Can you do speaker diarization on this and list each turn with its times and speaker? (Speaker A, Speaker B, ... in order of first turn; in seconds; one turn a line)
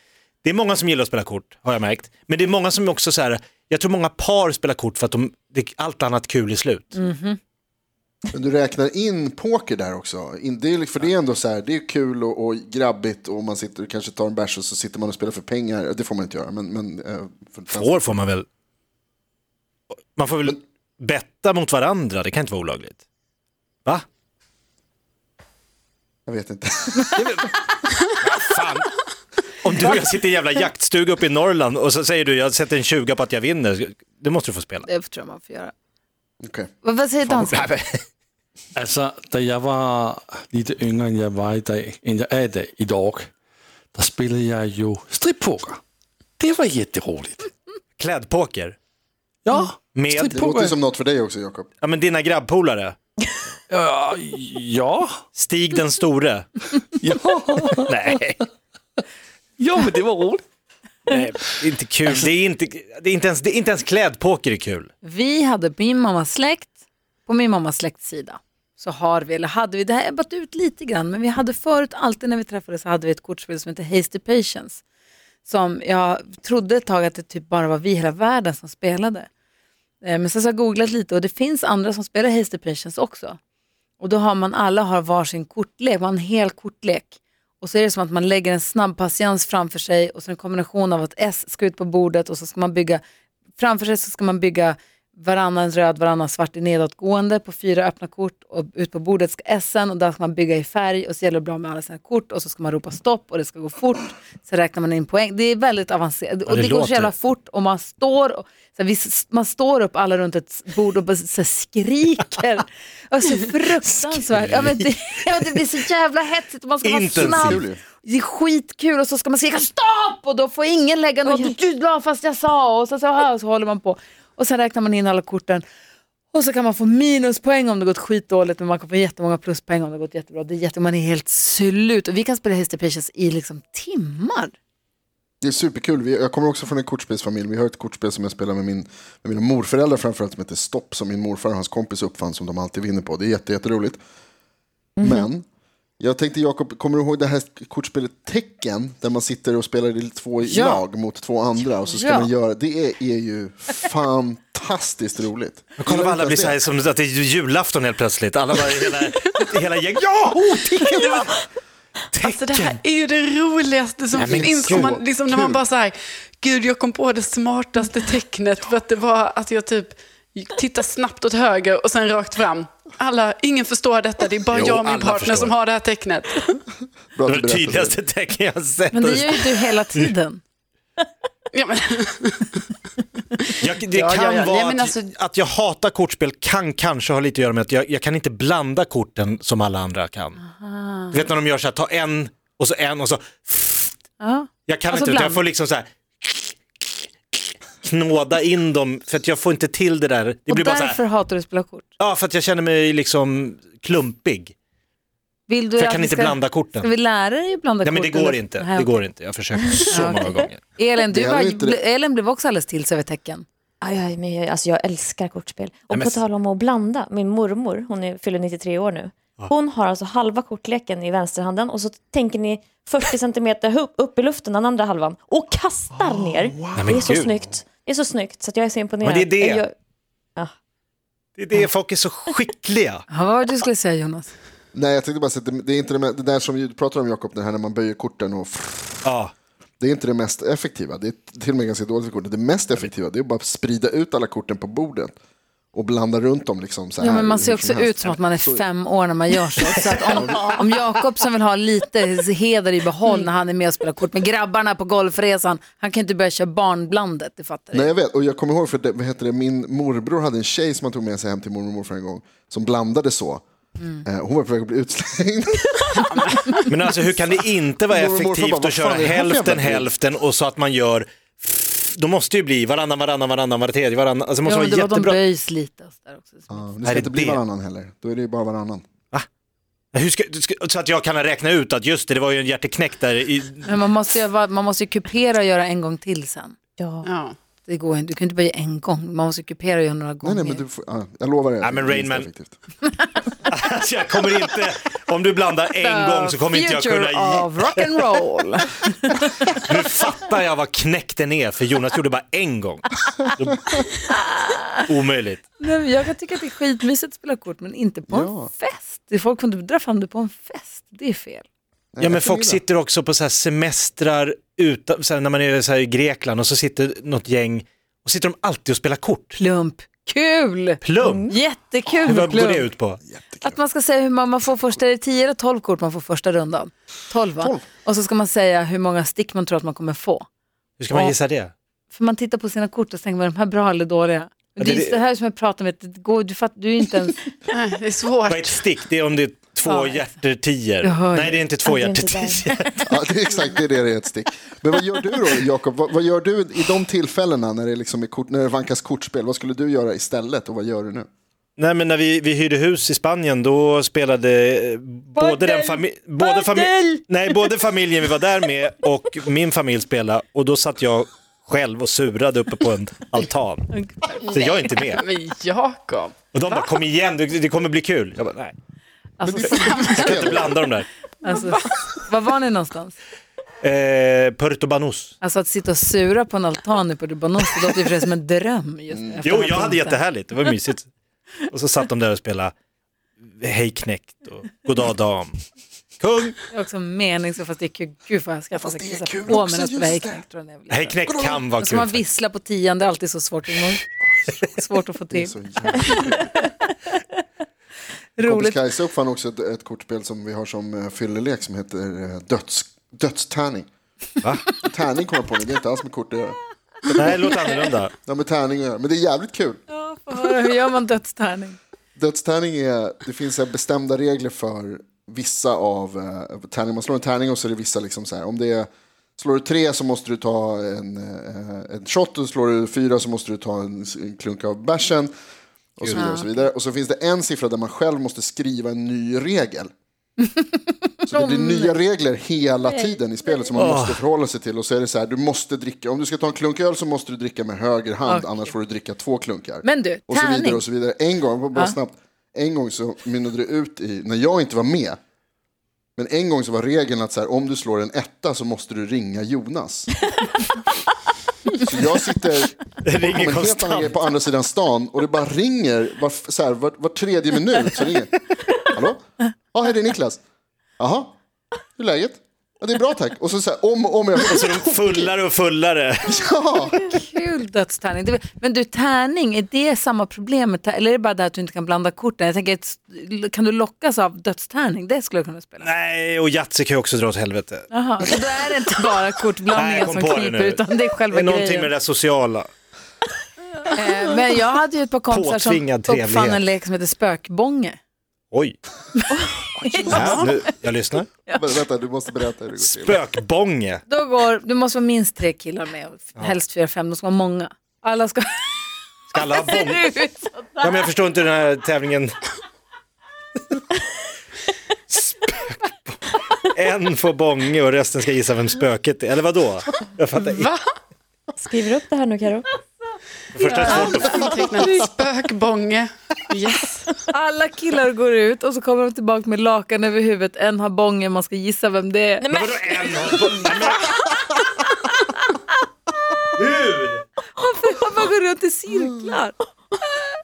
Speaker A: 0.4-7.0
Speaker B: 6.9-7.4
Speaker C: 8.3-18.2
Speaker A: 17.7-18.4
Speaker A: 20.1-23.0
Speaker C: 26.3-27.5
Speaker A: 27.1-27.5
Speaker A: 28.2-28.9
Speaker A: 29.6-34.9
Speaker B: 34.8-35.7
Speaker C: 36.4-36.7
Speaker B: 36.8-37.7
Speaker A: 37.2-37.8
Speaker D: 38.7-43.3
Speaker D: 43.9-45.8
Speaker D: 46.4-47.5
Speaker A: 48.0-48.8
Speaker D: 49.4-50.8
Speaker A: 49.9-50.4
Speaker C: 50.3-51.7
Speaker A: 51.8-53.0
Speaker D: 53.7-55.2
Speaker A: 55.3-56.5
Speaker D: 57.0-58.1
Speaker A: 57.9-58.4
Speaker D: 59.6-60.4
Speaker A: 61.1-64.9
Speaker B: 65.0-74.8
Speaker B: 75.4-79.3
Speaker B: 80.0-83.4
Speaker B: 84.0-93.0
Speaker B: 93.6-125.6
Speaker A: 106.5-107.1
Speaker A: 114.4-114.7
Speaker A: 116.8-117.6
Speaker C: 117.2-117.8
Speaker E: 121.2-121.5
Speaker B: 126.3-134.5
Speaker C: 135.4-144.0
Speaker E: 145.0-145.3
Speaker C: 145.0-145.4
Speaker C: 146.0-156.6
Speaker B: 150.5-150.8
Speaker B: 151.8-152.3
Speaker A: 155.8-161.4
Speaker A: 162.1-162.8
Speaker F: 162.2-176.6
Speaker A: 164.1-165.0
Speaker C: 164.2-165.6
Speaker A: 174.5-175.6
Speaker C: 177.1-178.0
Speaker A: 177.3-180.1
Speaker B: 178.9-180.4
Speaker F: 181.5-182.4
Speaker A: 183.6-190.4
Speaker F: 183.9-185.1
Speaker B: 190.4-191.2
Speaker A: 191.1-194.0
Speaker B: 194.2-195.4
Speaker A: 194.7-201.0
Speaker B: 200.5-201.9
Speaker A: 202.0-204.5
Speaker B: 205.5-209.0
Speaker A: 205.8-206.9
Speaker A: 207.8-210.6
Speaker E: 209.8-210.3
Speaker B: 209.9-213.4
Speaker C: 211.1-211.8
Speaker E: 213.8-229.7
Speaker A: 215.9-216.2
Speaker A: 226.7-227.4
Speaker A: 229.0-229.6
Speaker A: 231.4-233.0
Speaker B: 233.1-234.3
Speaker C: 234.7-239.1
Speaker A: 239.0-239.3
Speaker C: 239.8-245.1
Speaker C: 245.7-248.6
Speaker B: 247.0-257.9
Speaker C: 250.0-250.4
Speaker C: 257.7-263.4
Speaker B: 263.8-264.1
Speaker C: 264.0-265.9
Speaker F: 266.1-266.6
Speaker A: 266.7-275.2
Speaker C: 267.9-269.9
Speaker B: 274.4-276.6
Speaker C: 276.5-278.8
Speaker A: 276.8-277.4
Speaker A: 279.9-283.7
Speaker B: 283.6-286.6
Speaker E: 286.8-287.1
Speaker F: 287.0-287.4
Speaker B: 287.6-290.6
Speaker C: 290.2-292.5
Speaker A: 291.6-292.3
Speaker A: 293.5-297.8
Speaker B: 295.8-299.6
Speaker A: 299.4-303.8
Speaker B: 304.0-304.8
Speaker A: 304.8-305.4
Speaker B: 305.6-311.4
Speaker C: 308.1-308.5
Speaker C: 311.9-312.6
Speaker A: 312.0-319.4
Speaker B: 319.4-322.7
Speaker A: 320.8-321.3
Speaker E: 321.0-321.3
Speaker A: 321.9-323.0
Speaker C: 323.0-323.6
Speaker B: 323.4-330.2
Speaker C: 327.4-327.6
Speaker A: 330.8-331.5
Speaker B: 330.9-331.1
Speaker B: 331.9-337.3
Speaker A: 334.6-335.0
Speaker F: 337.5-338.6
Speaker A: 338.3-342.9
Speaker B: 339.6-340.1
Speaker B: 340.8-341.4
Speaker E: 341.6-342.5
Speaker C: 342.9-351.1
Speaker A: 351.6-363.7
Speaker B: 355.1-357.0
Speaker B: 363.7-364.2
Speaker F: 364.2-366.7
Speaker A: 364.3-365.0
Speaker A: 366.3-368.5
Speaker B: 369.2-370.1
Speaker F: 369.4-370.0
Speaker A: 369.4-370.9
Speaker C: 370.0-370.6
Speaker F: 371.2-371.7
Speaker B: 371.2-372.9
Speaker A: 373.6-375.1
Speaker B: 375.2-380.0
Speaker C: 378.9-379.2
Speaker A: 379.2-380.9
Speaker A: 381.4-382.5
Speaker A: 383.4-385.4
Speaker A: 386.0-386.4
Speaker B: 386.5-397.2
Speaker C: 388.6-390.2
Speaker A: 390.7-392.1
Speaker C: 391.0-391.4
Speaker C: 395.1-396.4
Speaker B: 398.1-398.6
Speaker C: 398.2-403.7
Speaker A: 404.2-404.6
Speaker C: 404.6-407.5
Speaker A: 406.9-407.9
Speaker C: 408.0-409.6
Speaker B: 409.7-411.6
Speaker C: 411.9-425.1
Speaker C: 425.8-429.7
Speaker A: 425.8-426.1
Speaker B: 425.9-426.3
Speaker B: 430.2-431.8
Speaker C: 431.1-445.0
Speaker B: 432.6-433.4
Speaker A: 433.5-434.0
Speaker B: 438.1-438.5
Speaker B: 439.6-440.6
Speaker C: 446.0-449.9
Speaker C: 451.6-460.2
Speaker A: 452.8-454.1
Speaker C: 460.8-461.1
Speaker C: 461.8-465.1
Speaker A: 464.2-466.3
Speaker C: 466.0-466.9
Speaker B: 466.8-475.7
Speaker A: 475.6-477.7
Speaker B: 477.7-481.7
Speaker A: 479.5-482.5
Speaker B: 483.7-487.8
Speaker A: 485.1-486.4
Speaker A: 488.3-488.6
Speaker B: 489.0-490.5
Speaker C: 489.6-490.4
Speaker A: 489.9-491.1
Speaker C: 491.3-493.0
Speaker A: 492.6-493.8
Speaker B: 493.9-498.5
Speaker A: 499.1-499.9
Speaker B: 499.3-500.9
Speaker A: 500.6-502.1
Speaker A: 504.9-510.5
Speaker F: 510.2-510.6
Speaker E: 511.4-512.5
Speaker A: 513.3-514.4
Speaker B: 513.4-514.8
Speaker F: 513.5-516.9
Speaker B: 517.1-522.2
Speaker E: 522.2-524.1
Speaker A: 522.3-524.0
Speaker A: 526.4-527.0
Speaker B: 527.3-529.4